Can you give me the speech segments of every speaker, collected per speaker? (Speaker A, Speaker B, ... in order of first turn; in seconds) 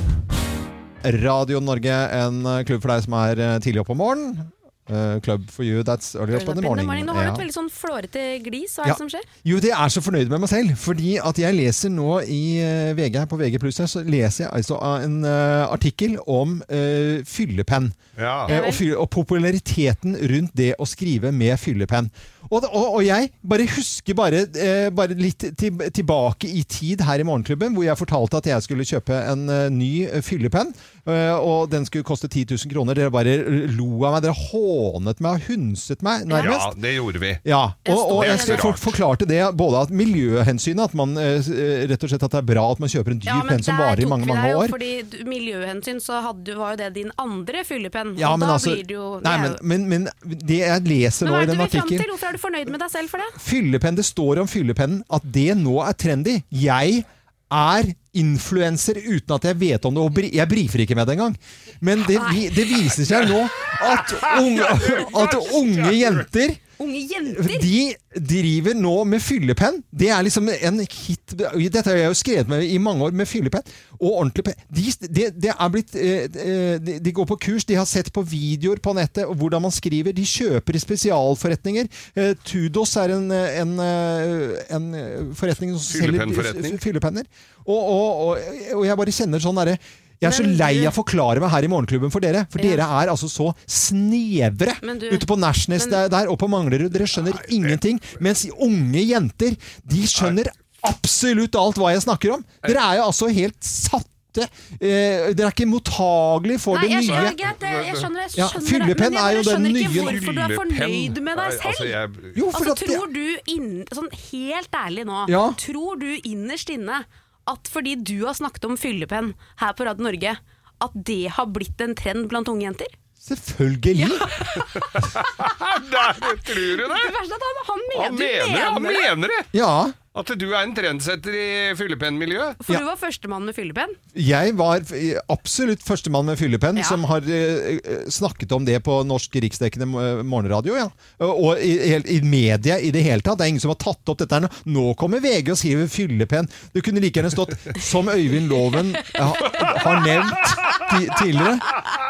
Speaker A: 1.0-7.5, 8.8-36.7, 37.4-44.8, 48.2-52.1, 53.4-66.6, 67.3-107.3, 108.4-110.2, 112.3-113.0, 115.3-115.6, 123.2-124.3, 129.5-129.9, 134.1-151.7
Speaker B: 6.3-9.3, 18.5-18.8, 36.3-36.6, 37.9-38.8, 43.3-49.6, 51.2-53.4, 62.1-62.7, 66.8-67.7, 90.2-90.9, 92.6-92.8, 94.8-95.3, 106.7-112.0, 112.5-122.9, 124.0-125.4, 126.0-129.1, 132.6-134.0
Speaker C: 18.2-18.6, 36.4-37.4, 38.1-39.0, 63.0-66.3, 85.9-86.8, 97.3-97.8, 107.0-108.1, 109.9-112.4, 124.9-127.1, 127.9-129.5, 130.1-132.6